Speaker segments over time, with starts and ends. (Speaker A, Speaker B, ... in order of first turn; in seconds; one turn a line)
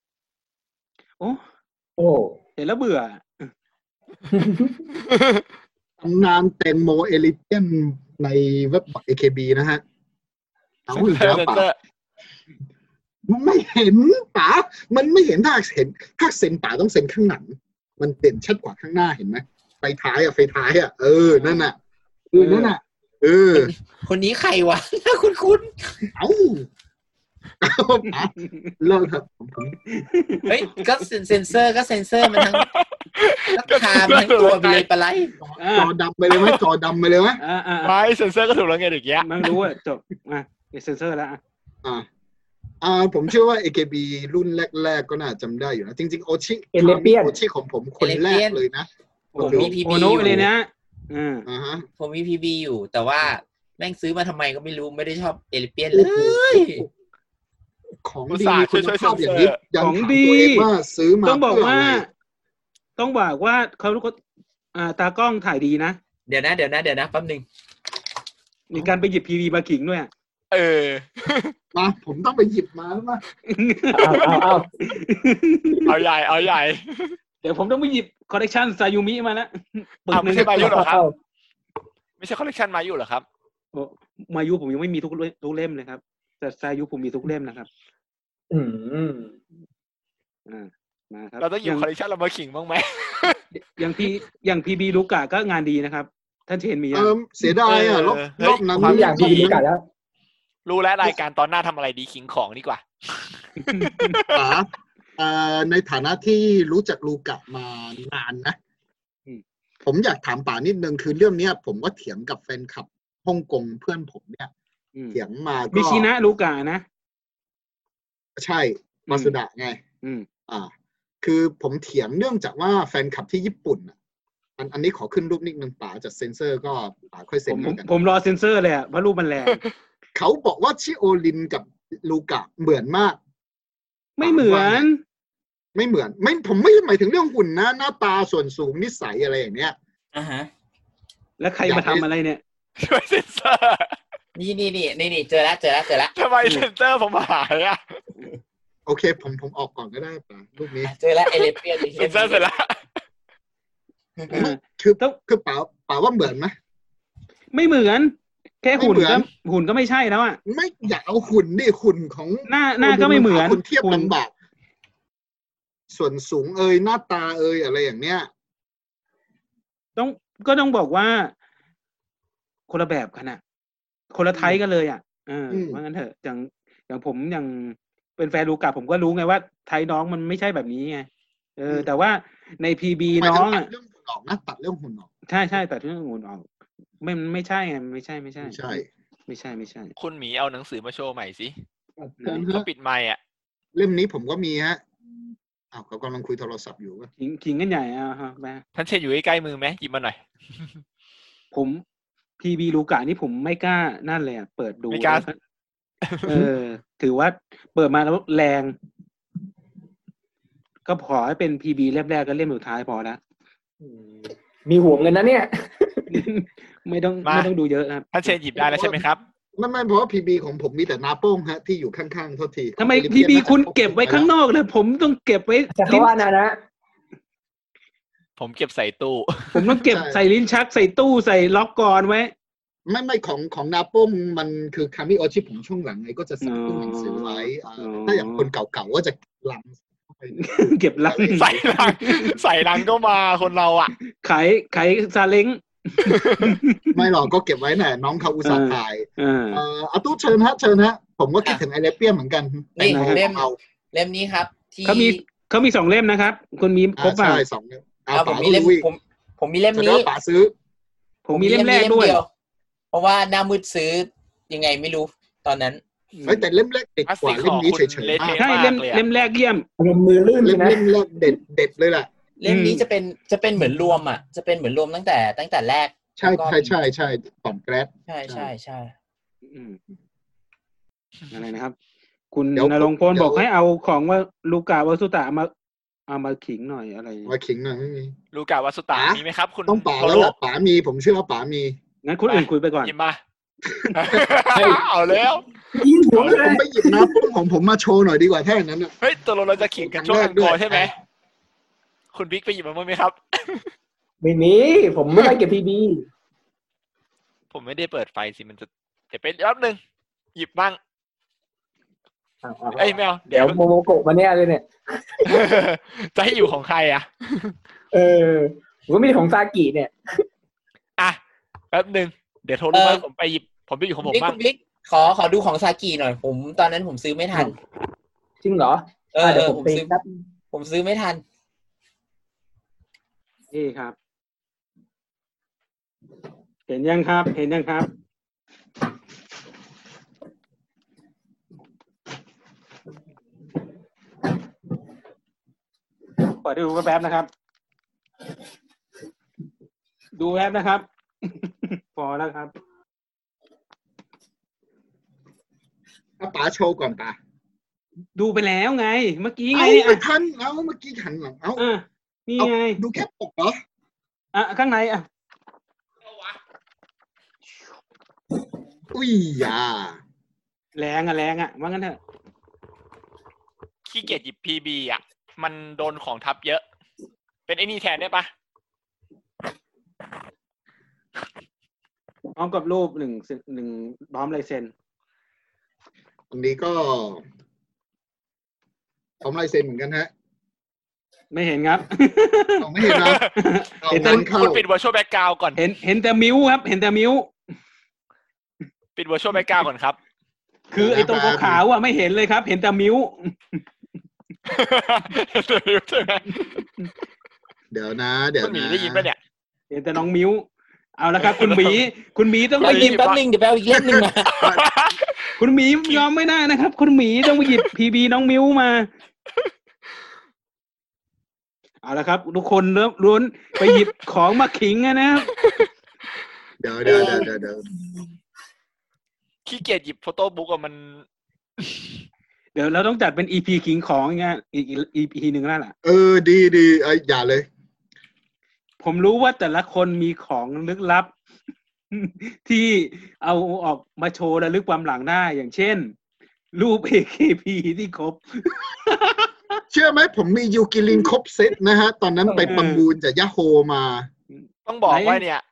Speaker A: 2.0-2.4
Speaker B: 2.6-3.5
Speaker A: 4.3-4.8
Speaker C: 6.0-9.8
Speaker C: 10.9-11.7
Speaker D: 10.9-11.8
Speaker C: 13.3-21.8
Speaker B: 21.4-21.7
Speaker C: 22.3-23.7
Speaker B: 22.4-22.7
Speaker E: 23.6-26.1
Speaker C: 26.1-26.7
Speaker C: 27.6-29.8
Speaker B: 28.4-28.7
Speaker B: 29.9-30.6
Speaker E: 30.5-32.7
Speaker D: 32.2-34.9
Speaker E: 33.5-35.4
Speaker C: 35.4-37.4
Speaker B: 35.6-35.9
Speaker D: 36.3-36.6
Speaker B: 37.4-38.0
Speaker D: 37.8-39.5
Speaker B: 39.2-41.4
Speaker C: 42.8-50.3
Speaker A: 46.7-47.4
Speaker E: 48.0-48.6
Speaker B: 49.3-51.5
Speaker E: 49.4-50.5
Speaker C: 51.5-51.9
Speaker E: 52.0-56.9
Speaker C: 55.9-56.9
Speaker C: 58.0-62.0
Speaker D: 58.3-59.6
Speaker B: 59.8-60.7
Speaker B: 61.2-62.1
Speaker B: 63.0-64.2
Speaker B: 64.8-66.0
Speaker E: 66.3-67.5
Speaker B: 68.7-70.1
Speaker D: 70.5-71.5
Speaker C: 71.7-73.2
Speaker B: 73.5-75.9
Speaker A: 73.9-74.7
Speaker D: 75.9-77.2
Speaker B: 77.4-80.8
Speaker D: 80.1-81.0
Speaker A: 80.4-81.1
Speaker D: 82.2-83.2
Speaker B: 83.7-87.7
Speaker A: 88.5-89.3
Speaker B: 90.5-91.9
Speaker D: 91.4-93.4
Speaker B: 93.5-97.1
Speaker C: 96.9-99.6
Speaker D: 97.7-99.6
Speaker A: 98.8-99.8
Speaker D: 100.7-104.4
Speaker B: 103.6-104.2
Speaker C: 104.3-108.6
Speaker C: 109.8-114.5
Speaker C: 115.1-116.1
Speaker B: 115.7-116.8
Speaker C: 118.4-119.8
Speaker B: 119.1-119.3
Speaker C: 121.2-123.9
Speaker C: 124.6-127.8
Speaker B: 127.5-129.6
Speaker C: 130.2-133.2
Speaker B: 134.2-135.0
Speaker C: 134.2-134.9
Speaker C: 135.8-139.8
Speaker E: 140.1-140.5
Speaker B: 141.4-142.4
Speaker C: 141.7-142.1
Speaker D: 142.8-144.0
Speaker E: 144.3-146.1
Speaker D: 146.2-148.0
Speaker C: 148.9-150.9
Speaker E: 150.8-152.5
Speaker D: 151.9-152.8
Speaker E: 154.2-154.5
Speaker B: 154.3-155.2
Speaker C: 154.3-156.6
Speaker B: 157.5-160.4
Speaker C: 158.8-159.3
Speaker C: 160.5-164.3
Speaker B: 162.5-164.1
Speaker C: 165.9-168.3
Speaker B: 170.0-171.3
Speaker B: 172.7-173.4
Speaker B: 174.1-183.7
Speaker C: 174.3-174.6
Speaker C: 175.5-175.8
Speaker C: 183.2-185.1
Speaker B: 185.3-186.5
Speaker B: 187.0-189.9
Speaker C: 188.4-188.9
Speaker D: 190.0-191.5
Speaker C: 192.0-192.7
Speaker D: 192.4-193.2
Speaker C: 193.8-194.8
Speaker C: 195.7-197.1
Speaker B: 197.2-198.6
Speaker D: 198.8-200.2
Speaker B: 201.5-201.8
Speaker B: 202.4-205.4
Speaker D: 204.9-205.3
Speaker D: 206.1-206.5
Speaker B: 206.2-208.8
Speaker B: 210.9-213.2
Speaker A: 213.8-216.1
Speaker B: 216.1-218.3
Speaker D: 217.2-217.5
Speaker D: 218.1-219.2
Speaker C: 218.6-219.0
Speaker C: 219.6-224.3
Speaker B: 222.8-226.1
Speaker A: 225.7-226.6
Speaker D: 228.4-229.5
Speaker B: 229.5-232.3
Speaker C: 229.9-230.2
Speaker C: 232.9-241.7
Speaker B: 236.4-238.5
Speaker B: 240.4-242.8
Speaker D: 241.4-243.9
Speaker B: 244.2-247.0
Speaker D: 246.1-246.6
Speaker C: 246.9-253.6
Speaker B: 248.4-249.6
Speaker E: 252.8-255.2
Speaker B: 252.8-253.2
Speaker B: 254.8-257.4
Speaker C: 257.0-258.9
Speaker E: 258.1-260.1
Speaker C: 259.8-260.5
Speaker B: 261.2-262.2
Speaker E: 261.3-262.3
Speaker E: 262.9-265.8
Speaker B: 266.1-266.5
Speaker C: 266.2-268.4
Speaker D: 267.1-269.1
Speaker B: 268.4-269.7
Speaker A: 269.8-270.9
Speaker C: 270.4-272.1
Speaker E: 272.4-276.8
Speaker B: 272.5-272.8
Speaker C: 276.2-278.5
Speaker E: 278.1-278.9
Speaker B: 279.5-279.8
Speaker B: 281.3-281.8
Speaker B: 282.3-285.5
Speaker C: 282.6-283.5
Speaker B: 286.1-287.3
Speaker C: 287.3-288.1
Speaker D: 288.3-290.3
Speaker C: 288.9-291.8
Speaker B: 292.0-292.9
Speaker D: 292.3-293.2
Speaker D: 293.9-295.5
Speaker A: 294.5-294.9
Speaker A: 295.7-297.1
Speaker D: 296.1-296.4
Speaker C: 296.2-298.9
Speaker D: 299.0-300.9
Speaker C: 299.7-300.9
Speaker D: 302.1-303.7
Speaker A: 304.2-306.1
Speaker D: 307.5-309.8
Speaker D: 310.4-310.8
Speaker A: 312.4-315.5
Speaker D: 312.8-313.6
Speaker D: 315.3-317.5
Speaker A: 317.9-319.9
Speaker D: 321.7-324.4
Speaker E: 322.7-323.0
Speaker E: 324.0-327.6
Speaker A: 328.4-330.1
Speaker E: 329.1-329.9
Speaker E: 330.5-331.2
Speaker B: 333.5-334.0
Speaker B: 336.7-337.9
Speaker B: 346.3-347.3
Speaker B: 350.2-352.5
Speaker C: 356.2-357.2
Speaker B: 358.2-360.0
Speaker C: 359.5-361.6
Speaker B: 361.6-362.8
Speaker C: 362.4-363.6
Speaker B: 364.3-365.1
Speaker C: 368.9-370.0
Speaker B: 370.8-372.0
Speaker D: 373.9-376.6
Speaker D: 377.5-378.3
Speaker B: 382.4-384.7
Speaker C: 386.3-387.2
Speaker C: 389.2-390.1
Speaker B: 391.3-392.6
Speaker C: 392.6-393.2
Speaker D: 392.8-393.3
Speaker B: 393.4-394.2
Speaker C: 393.8-394.6
Speaker D: 394.0-395.6
Speaker B: 395.6-397.3
Speaker D: 399.0-400.0
Speaker B: 400.7-403.6
Speaker C: 400.8-401.6
Speaker D: 404.5-406.7
Speaker C: 407.7-409.1
Speaker D: 408.4-409.2
Speaker B: 409.7-410.5
Speaker B: 411.0-413.0
Speaker D: 411.2-411.9
Speaker D: 412.6-413.2
Speaker E: 412.6-414.4
Speaker C: 413.8-414.7
Speaker D: 414.4-415.3
Speaker B: 415.4-418.9
Speaker B: 421.8-425.3
Speaker D: 425.4-425.7
Speaker C: 426.6-427.7
Speaker A: 426.9-427.3
Speaker D: 429.5-431.0
Speaker D: 431.6-431.9
Speaker B: 432.6-435.7
Speaker C: 435.8-437.5
Speaker B: 438.8-441.1
Speaker B: 441.9-445.9
Speaker B: 446.5-449.6
Speaker C: 449.7-454.1
Speaker B: 452.4-452.8
Speaker B: 454.3-455.2
Speaker D: 454.7-455.4